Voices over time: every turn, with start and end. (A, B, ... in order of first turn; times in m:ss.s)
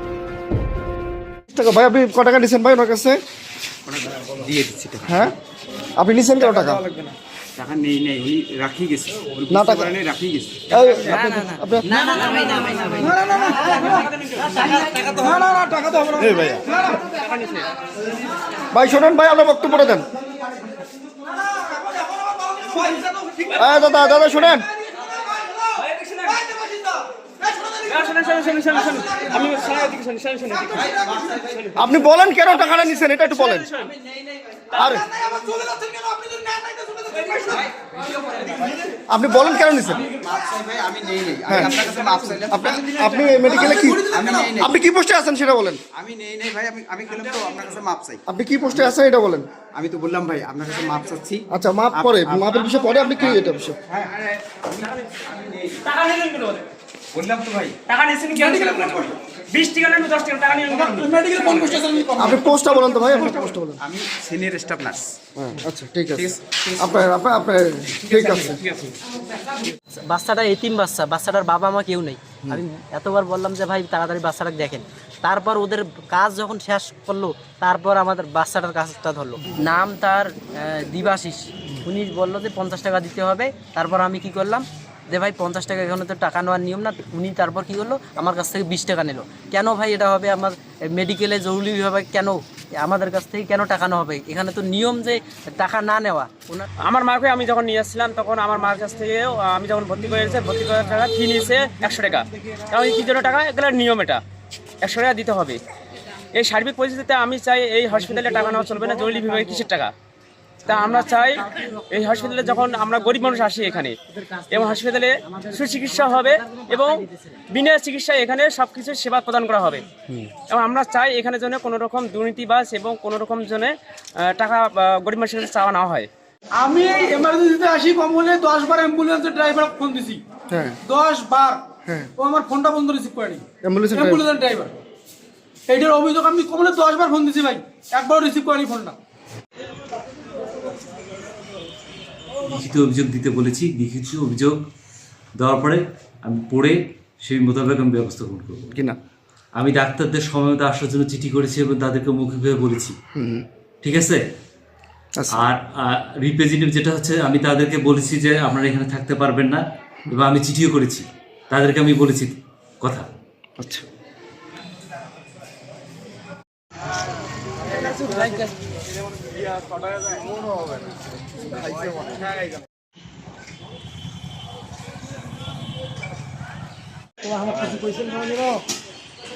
0:01.5-0:03.2 A
0:03.8-0:05.2 B
0:05.0-0:05.3 A
0:06.0-0:06.8 A
0:07.6-0:10.9 B
0:09.5-0:10.0 A
0:10.7-0:11.9 A
0:11.2-0:13.9 C
0:11.9-0:12.8 B
0:13.0-0:13.5 D
0:13.7-0:15.0 E
0:14.6-0:15.1 C
0:15.2-0:16.3 D
0:16.2-0:16.8 A
0:16.6-0:17.7 E
0:18.7-0:20.1 A
0:23.5-0:24.6 A
0:25.8-0:26.4 E
0:27.8-0:31.8 E
0:31.7-0:33.7 A
0:33.3-0:33.9 E
0:34.7-0:35.0 A
0:39.1-0:40.1 A
0:40.1-0:43.0 B
0:41.5-0:41.8 A
0:42.5-0:45.8 A
0:43.4-0:44.4 D
0:44.1-0:44.8 B
0:45.9-0:48.2 B
0:48.3-0:49.5 A
0:49.7-0:55.8 B
0:51.5-0:53.8 A
0:55.8-0:56.7 E
0:57.1-0:57.8 B
0:57.9-1:01.8 E
1:01.0-1:02.3 D
1:02.2-1:03.8 A
1:02.2-1:05.1 B
1:05.4-1:08.6 A
1:06.1-1:06.7 B
1:08.1-1:09.0 E
1:10.1-1:36.7 C
1:36.8-1:44.2 E
1:44.8-1:45.6 E
1:46.3-1:49.9 E
1:50.6-1:54.0 E
1:50.7-1:52.2 C
1:54.1-1:57.4 C
1:54.5-1:59.8 E
2:00.5-2:06.1 E
2:06.5-2:10.2 D
2:10.5-2:10.8 A
2:10.8-2:11.6 D
2:12.2-2:14.8 D
2:13.6-2:14.2 A
2:15.7-2:19.0 D
2:22.4-2:24.6 F
2:25.4-2:28.6 F
2:28.7-2:29.0 A
2:29.5-2:33.0 F
2:33.1-2:33.4 A
2:33.8-2:34.2 F
2:35.1-2:35.4 A
2:35.3-2:43.1 F
2:43.6-2:43.8 A
2:47.8-2:48.4 E
2:57.7-2:58.5 D